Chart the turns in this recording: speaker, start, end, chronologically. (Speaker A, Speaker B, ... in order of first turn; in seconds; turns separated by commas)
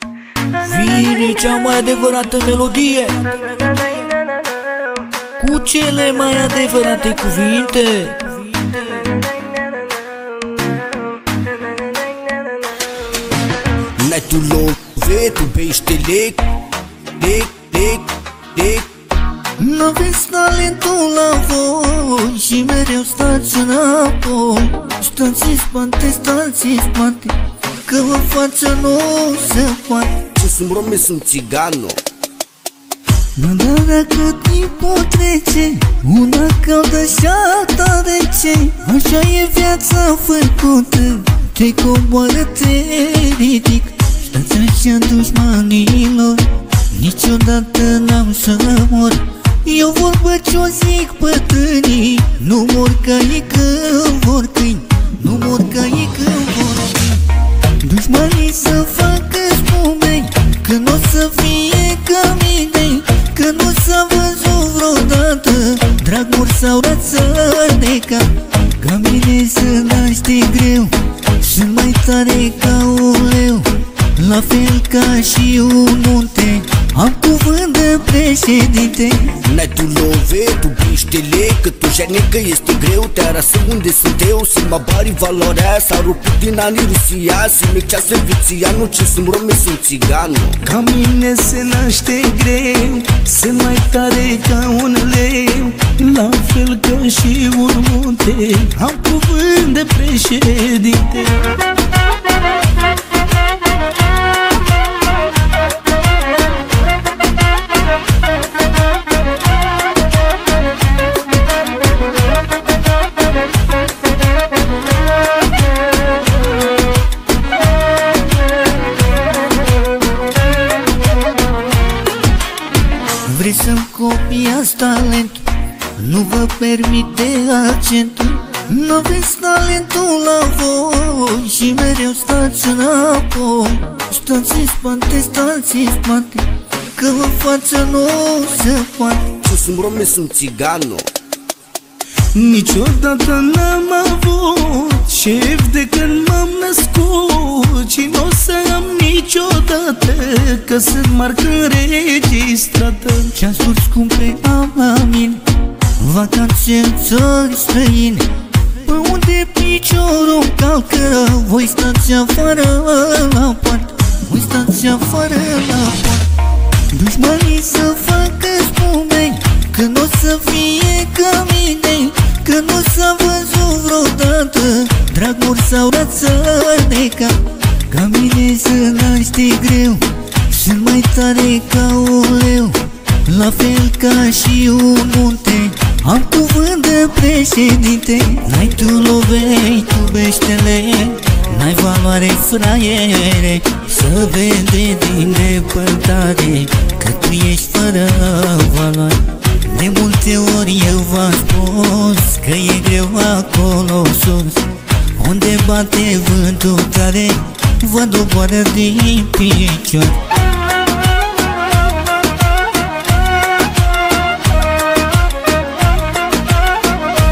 Speaker A: 0.6-3.2, Speaker A: 5.4-8.3, Speaker B: 14.0-16.4, Speaker B: 17.2-18.9, Speaker A: 19.6-30.2, Speaker B: 30.3-32.0, Speaker A: 33.4-57.3, Speaker A: 57.8-79.4, Speaker B: 79.4-90.6, Speaker C: 90.7-101.5, Speaker A: 123.2-139.3, Speaker B: 139.4-141.1, Speaker C: 142.3-153.3, Speaker A: 153.3-155.4, Speaker A: 155.9-158.3, Speaker A: 158.8-166.3, Speaker A: 166.9-177.4, Speaker A: 177.9-210.2